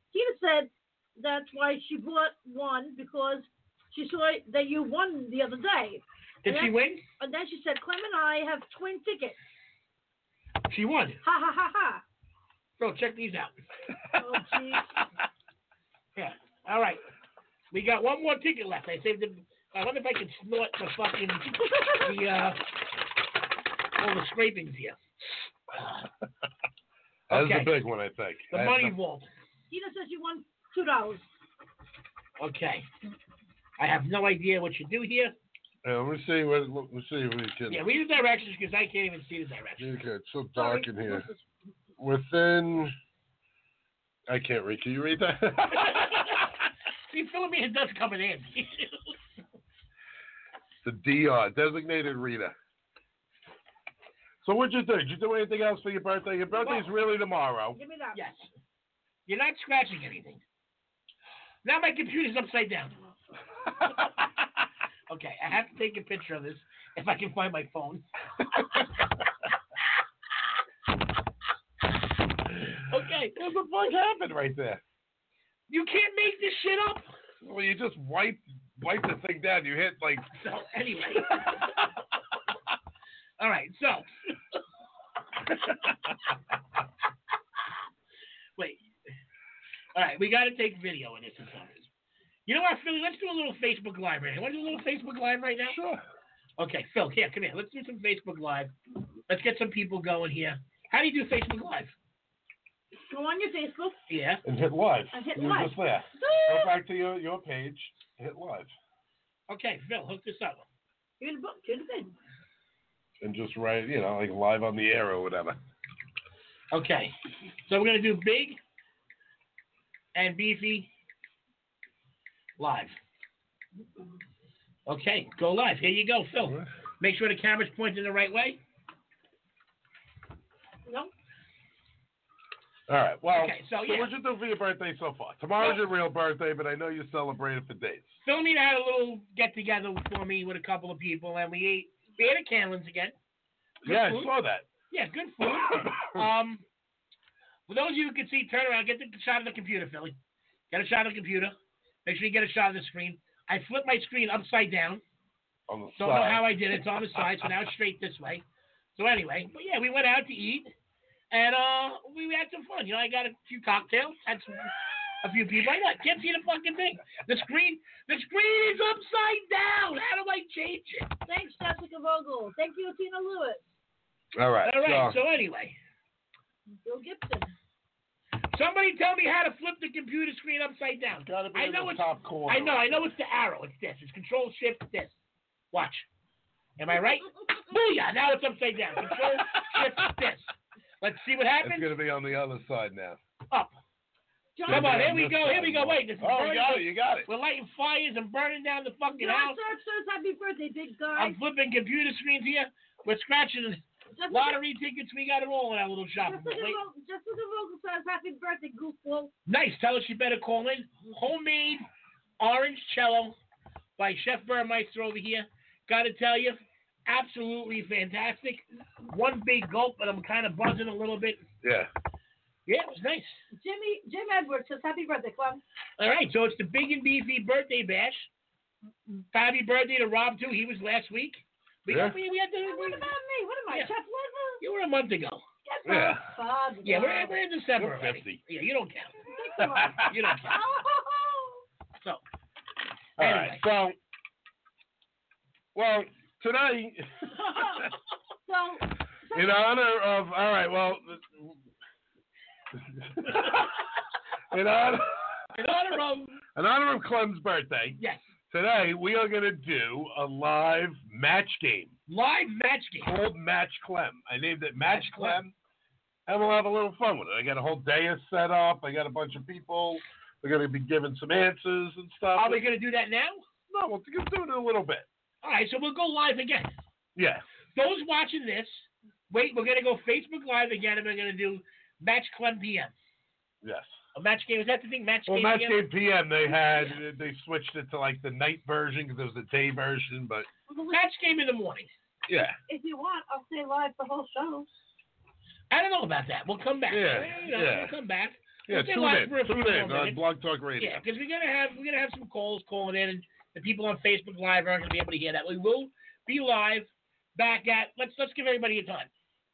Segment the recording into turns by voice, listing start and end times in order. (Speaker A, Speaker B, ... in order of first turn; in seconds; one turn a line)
Speaker A: 0.1-9.3
Speaker B: 6.4-7.0
Speaker B: 10.7-11.2
Speaker A: 11.2-12.0
Speaker B: 12.8-13.5
Speaker A: 14.2-14.9
Speaker B: 16.1-17.0
Speaker B: 17.7-22.6
Speaker A: 21.7-22.0
Speaker B: 24.0-25.0
Speaker C: 27.3-28.9
Speaker B: 27.3-27.7
Speaker B: 28.5-29.3
Speaker A: 29.7-31.3
Speaker B: 32.4-32.9
Speaker B: 33.8-35.3
Speaker C: 35.8-37.8
Speaker B: 37.7-39.9
Speaker C: 39.8-41.3
Speaker A: 40.5-41.4
Speaker C: 42.0-42.9
Speaker C: 44.3-46.5
Speaker B: 45.8-46.4
Speaker B: 47.1-49.0
Speaker C: 50.8-52.5
Speaker C: 54.4-57.8
Speaker A: 57.7-58.2
Speaker B: 58.1-58.5
Speaker B: 59.3-60.4
Speaker B: 61.6-63.0
Speaker B: 65.1-68.0
Speaker C: 72.5-74.8
Speaker B: 72.9-73.3
Speaker B: 75.7-77.1
Speaker C: 77.4-80.3
Speaker B: 80.3-81.5
Speaker B: 83.4-84.1
Speaker B: 89.9-91.9
Speaker B: 92.5-95.8
Speaker C: 95.7-96.0
Speaker B: 96.6-98.7
Speaker B: 99.3-101.9
Speaker A: 103.1-104.0
Speaker B: 104.1-104.4
Speaker C: 104.4-108.7
Speaker A: 105.1-106.8
Speaker B: 109.5-110.6
Speaker A: 111.2-112.1
Speaker C: 113.2-115.6
Speaker B: 116.7-118.6
Speaker B: 120.1-120.9
Speaker B: 122.6-123.0
Speaker B: 124.9-128.6
Speaker A: 130.8-131.1
Speaker C: 132.9-138.1
Speaker B: 133.3-134.1
Speaker B: 138.2-143.1
Speaker C: 143.8-144.7
Speaker B: 143.8-144.3
Speaker B: 144.9-146.6
Speaker C: 145.4-146.3
Speaker B: 147.7-150.1
Speaker B: 150.7-155.0
Speaker C: 155.7-157.2
Speaker B: 156.0-158.4
Speaker B: 158.9-160.7
Speaker B: 161.3-171.1
Speaker A: 171.3-173.6
Speaker C: 174.3-175.2
Speaker B: 174.6-175.8
Speaker A: 176.8-177.5
Speaker B: 178.5-185.2
Speaker C: 181.2-183.0
Speaker B: 185.7-186.1
Speaker B: 186.8-191.9
Speaker C: 189.2-190.1
Speaker C: 191.6-193.2
Speaker B: 193.5-193.8
Speaker A: 194.6-195.1
Speaker C: 194.7-197.3
Speaker B: 194.7-199.6
Speaker A: 199.2-201.4
Speaker B: 201.1-206.8
Speaker A: 204.2-204.6
Speaker A: 206.2-209.3
Speaker B: 209.5-211.9
Speaker B: 212.4-213.3
Speaker B: 214.0-221.4
Speaker C: 221.6-221.9
Speaker B: 222.7-223.4
Speaker A: 223.5-225.6
Speaker B: 226.0-228.3
Speaker B: 229.3-233.0
Speaker C: 231.9-232.2
Speaker A: 232.6-234.6
Speaker B: 234.6-235.4
Speaker A: 235.7-237.4
Speaker C: 235.8-236.2
Speaker B: 236.8-239.2
Speaker C: 237.8-238.4
Speaker A: 239.3-241.6
Speaker C: 239.6-240.2
Speaker B: 240.0-240.6
Speaker B: 243.2-243.6
Speaker C: 243.2-244.0
Speaker C: 245.7-247.9
Speaker A: 247.4-247.9
Speaker A: 248.5-249.5
Speaker C: 249.3-251.6
Speaker C: 252.8-253.8
Speaker C: 254.5-255.3
Speaker B: 255.5-256.4
Speaker C: 256.5-258.0
Speaker B: 258.0-258.2
Speaker C: 258.5-261.9
Speaker B: 262.1-263.1
Speaker C: 263.0-265.5
Speaker B: 264.9-265.4
Speaker C: 266.3-272.6
Speaker B: 272.3-273.4
Speaker C: 273.7-275.1
Speaker B: 275.4-276.8
Speaker C: 277.1-277.4
Speaker B: 277.7-282.9
Speaker C: 283.6-283.9
Speaker B: 284.1-285.8
Speaker C: 285.3-290.5
Speaker B: 286.6-287.0
Speaker A: 290.7-291.0
Speaker B: 290.9-291.9
Speaker C: 292.3-292.6
Speaker A: 292.7-294.7
Speaker B: 295.7-300.2
Speaker C: 296.9-297.9
Speaker C: 298.7-301.0
Speaker B: 300.8-309.1